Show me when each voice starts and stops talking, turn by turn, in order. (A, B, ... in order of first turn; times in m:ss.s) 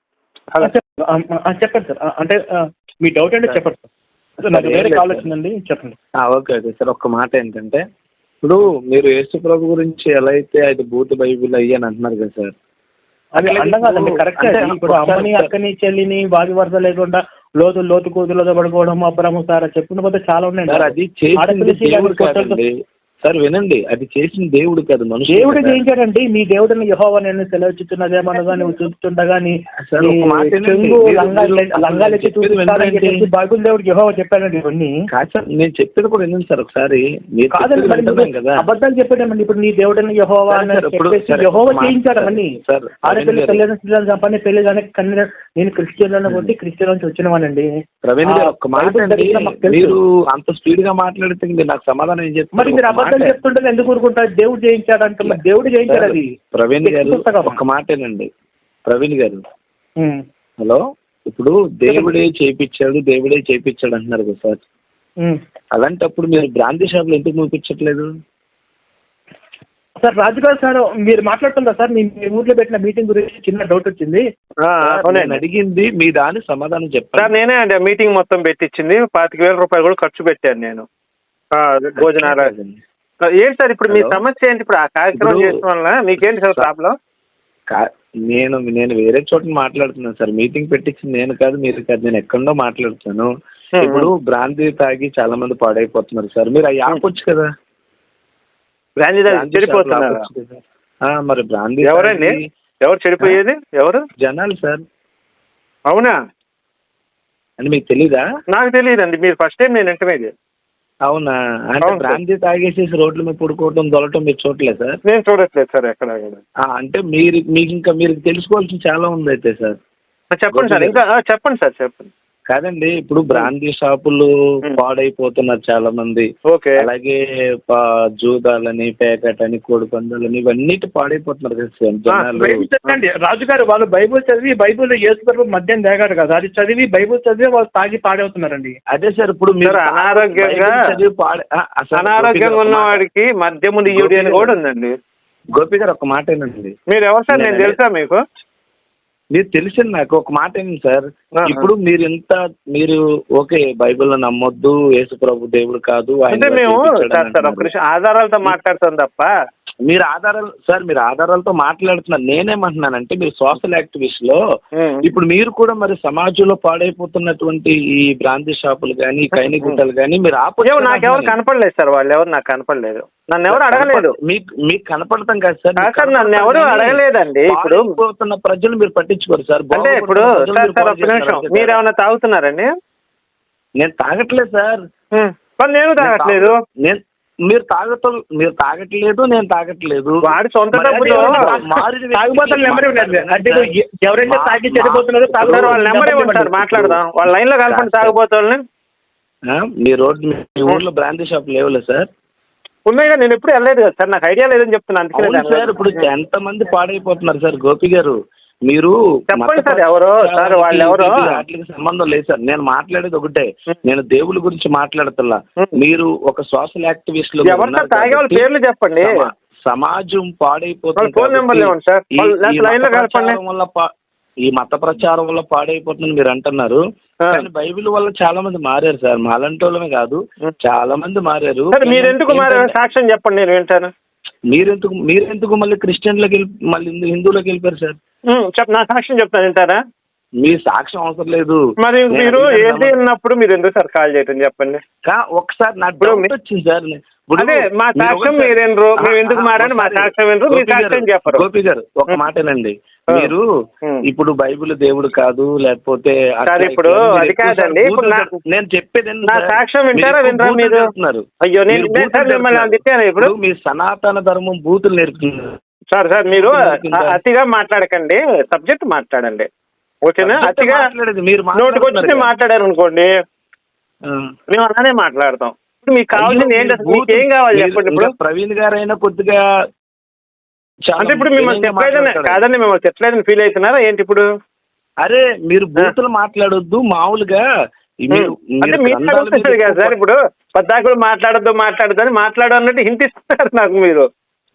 0:00.6-0:02.4 A
0:03.0-0:03.8 A
0:04.4-0:06.0 A
0:04.5-0:05.3 B
0:06.2-0:07.8 B
0:08.4-0:12.5 B
0:13.3-0:22.6 A
0:13.4-0:15.5 B
0:20.7-0:25.8 B
0:25.3-0:35.0 A
0:29.9-0:33.2 B
0:35.1-0:38.6 B
0:37.5-0:42.5 A
0:40.5-0:43.6 B
0:43.0-0:47.7 A
0:46.3-0:46.5 B
0:48.0-0:53.4 B
0:48.2-0:50.0 A
0:52.5-0:57.6 A
0:55.2-0:58.3 B
0:58.9-0:59.4 B
1:00.6-1:04.6 B
1:01.9-1:02.1 A
1:05.7-1:08.1 B
1:10.0-1:14.3 A
1:14.7-1:15.4 C
1:14.8-1:17.4 B
1:17.2-1:20.8 C
1:21.6-1:22.5 C
1:22.0-1:22.8 B
1:23.2-1:26.9 C
1:23.9-1:24.2 B
1:25.1-1:25.6 B
1:26.2-1:26.7 B
1:27.7-1:37.5 B
1:33.7-1:34.1 C
1:39.0-1:40.2 C
1:39.2-1:42.4 B
1:41.8-1:42.3 C
1:42.8-1:44.0 C
1:44.2-1:44.8 B
1:45.9-1:46.1 C
1:47.6-1:48.2 B
1:48.5-1:50.3 C
1:51.0-1:55.0 B
1:51.8-1:52.2 C
1:55.0-1:56.4 C
1:56.6-1:59.8 B
2:00.3-2:02.1 C
2:00.5-2:01.0 B
2:02.5-2:12.7 B
2:06.5-2:06.9 C
2:12.4-2:18.8 A
2:18.9-2:23.0 B
2:19.6-2:20.8 C
2:22.0-2:25.0 C
2:23.9-2:24.6 B
2:25.6-2:26.7 B
2:26.9-2:28.2 C
2:27.3-2:27.8 B
2:29.3-2:37.7 B
2:31.4-2:31.7 C
2:36.3-2:39.3 C
2:39.9-2:44.4 B
2:44.8-2:45.0 C
2:45.0-2:51.4 B
2:49.3-2:49.8 C
2:50.6-2:54.1 C
2:53.5-3:01.8 B
2:55.8-2:57.9 C
2:59.7-3:02.7 C
3:03.8-3:04.8 B
3:05.1-3:06.6 C
3:06.0-3:13.7 B
3:10.2-3:11.4 C
3:10.9-3:16.8 A
3:14.2-3:15.8 B
3:15.4-3:18.6 C
3:16.6-3:17.0 B
3:17.7-3:18.2 B
3:19.5-3:22.1 B
3:22.9-3:26.1 C
3:25.1-3:28.2 B
3:28.7-3:38.5 B
3:29.3-3:31.4 C
3:37.4-3:39.2 C
3:39.0-3:43.9 B
3:41.0-3:43.4 C
3:44.5-3:52.7 B
3:51.7-3:53.9 C
3:54.5-3:58.0 B
3:58.3-3:59.8 C
4:00.4-4:03.0 B
4:01.8-4:04.8 C
4:05.1-4:13.4 B
4:06.0-4:06.3 C
4:07.4-4:11.4 C
4:14.1-4:25.6 B
4:16.4-4:18.3 C
4:19.2-4:20.8 C
4:21.4-4:23.3 C
4:25.9-4:29.5 C
4:26.3-4:27.2 B
4:30.0-4:30.8 C
4:30.2-4:32.3 B
4:31.5-4:33.1 C
4:34.1-4:34.3 B
4:34.5-4:38.1 C
4:36.1-4:39.4 B
4:40.9-4:42.4 B
4:41.0-4:44.2 C
4:45.0-4:47.4 B
4:48.1-4:50.0 B
4:48.1-4:54.1 C